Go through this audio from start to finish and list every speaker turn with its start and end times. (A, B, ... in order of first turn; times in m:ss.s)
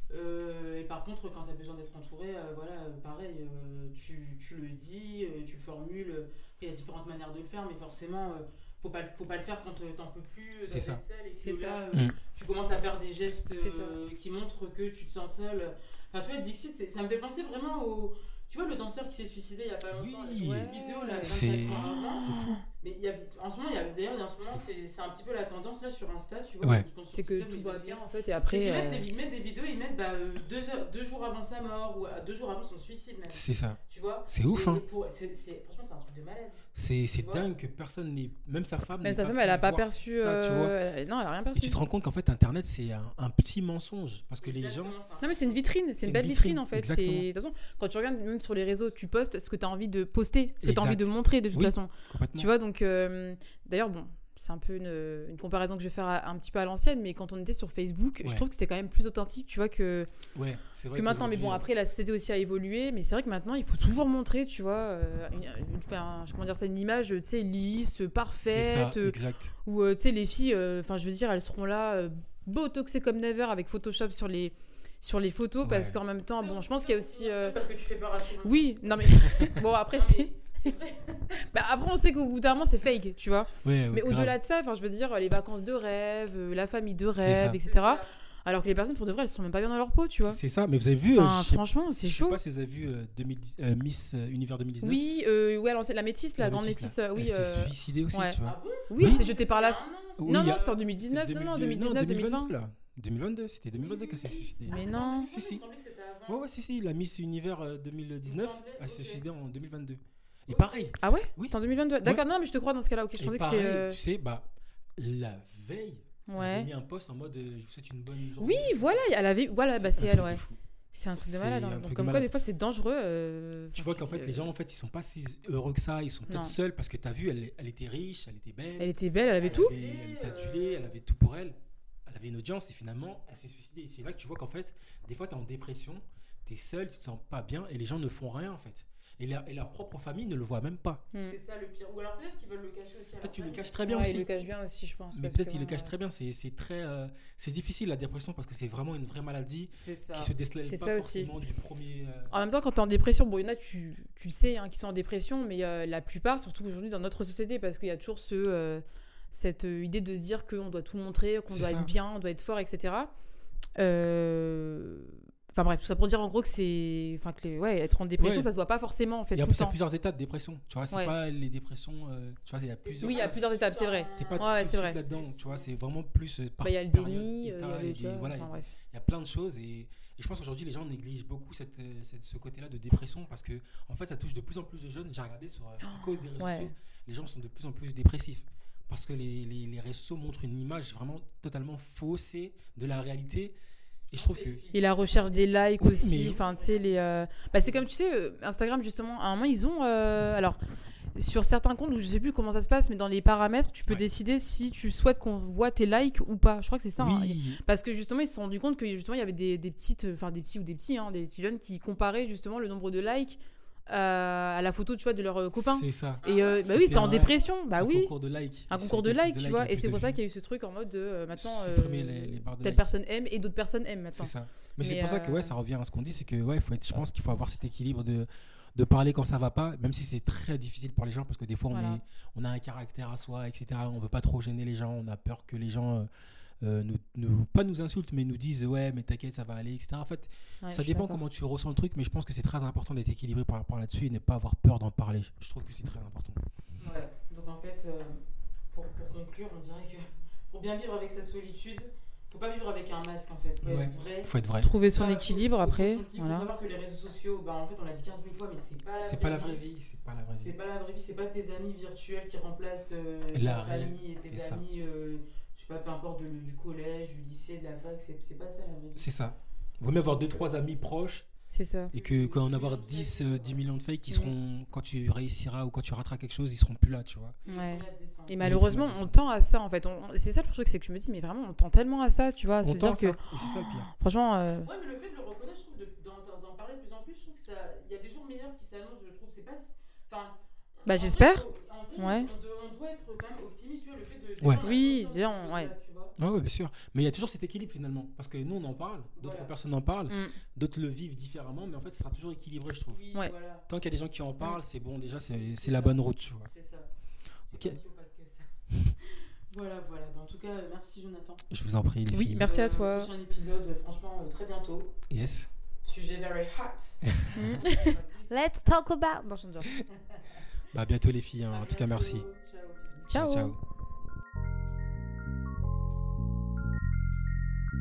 0:00.1-0:36.6 A
0:10.6-0:11.0 B
0:11.4-0:12.0 C
0:13.6-0:14.0 C
0:19.9-0:22.6 B
0:20.4-0:22.6 C
0:27.1-0:29.1 C
0:33.3-0:34.8 B
0:36.7-0:40.8 B
0:37.2-0:37.5 A
0:39.0-0:41.8 C
0:41.6-0:45.0 B
0:44.4-0:45.6 A
0:45.2-1:00.1 C
0:46.0-0:47.3 B
0:50.6-0:52.5 B
1:00.4-1:01.7 B
1:00.9-1:17.6 C
1:08.4-1:09.5 B
1:15.6-1:16.0 B
1:16.3-1:21.5 A
1:18.4-1:20.7 C
1:21.5-1:30.4 C
1:23.6-1:24.4 B
1:27.2-1:27.6 B
1:27.6-1:28.1 A
1:30.3-1:35.0 B
1:31.1-1:32.4 C
1:34.8-1:42.5 C
1:36.4-1:39.2 B
1:38.4-1:40.8 A
1:40.2-1:45.6 B
1:43.8-1:46.4 A
1:44.7-1:45.3 C
1:46.3-1:52.2 B
1:48.2-1:49.2 A
1:50.5-1:50.9 A
1:51.0-1:54.0 C
1:53.2-1:59.1 B
1:56.3-1:56.7 C
1:58.4-2:04.5 C
1:59.7-2:00.6 B
2:01.1-2:02.3 B
2:03.8-2:21.0 B
2:06.3-2:06.6 C
2:08.8-2:09.7 C
2:09.2-2:11.0 A
2:21.1-2:21.4 C
2:21.2-2:24.5 A
2:23.2-2:24.3 B
2:23.9-2:25.9 C
2:25.1-2:32.3 B
2:29.8-2:30.3 A
2:30.6-2:31.3 C
2:32.3-2:43.1 C
2:41.5-2:41.9 B
2:43.8-2:49.8 C
2:48.2-2:48.5 B
2:49.3-2:53.4 B
2:52.8-2:55.7 A
2:53.0-2:55.0 C
2:54.2-3:13.6 B
2:56.6-2:58.7 C
3:05.8-3:06.7 C
3:14.1-3:14.6 B
3:14.1-3:17.0 A
3:14.7-3:20.6 C
3:15.8-3:16.4 B
3:21.2-3:38.1 C
3:27.0-3:27.6 B
3:35.6-3:40.2 B
3:36.2-3:37.1 A
3:38.7-3:45.5 C
3:41.4-3:42.8 B
3:44.2-3:56.1 B
3:51.7-3:52.0 C
3:56.6-4:06.4 B
4:00.6-4:01.2 C
4:06.8-4:14.3 A
4:13.6-4:14.7 B
4:14.6-4:16.5 C
4:14.9-4:19.6 A
4:19.0-4:20.5 B
4:20.3-4:29.1 A
4:23.3-4:24.6 B
4:29.0-4:31.3 B
4:31.5-4:31.9 C
4:31.9-4:37.4 B
4:31.9-4:33.6 A
4:37.4-4:38.4 A
4:37.4-4:44.7 C
4:38.4-4:39.2 B
4:42.6-4:43.9 B
4:44.6-4:56.1 A
4:50.9-4:51.4 C
4:52.0-4:52.3 C
4:54.6-4:55.7 C
4:56.2-5:03.0 B
4:59.2-4:59.5 A
5:00.1-5:00.4 C
5:02.9-5:03.6 A
5:03.7-5:06.5 B
5:05.2-5:06.9 A
5:07.5-5:11.4 A
5:07.5-5:07.8 B
5:11.5-5:12.5 B
5:12.1-5:13.1 C
5:12.4-5:14.9 A
5:15.1-5:15.5 B
5:15.8-5:18.4 A
5:17.1-5:17.4 B
5:17.3-5:19.8 C
5:19.9-5:20.5 A
5:20.7-5:22.3 B
5:21.5-5:23.1 A
5:23.1-5:23.6 C
5:23.1-5:23.6 B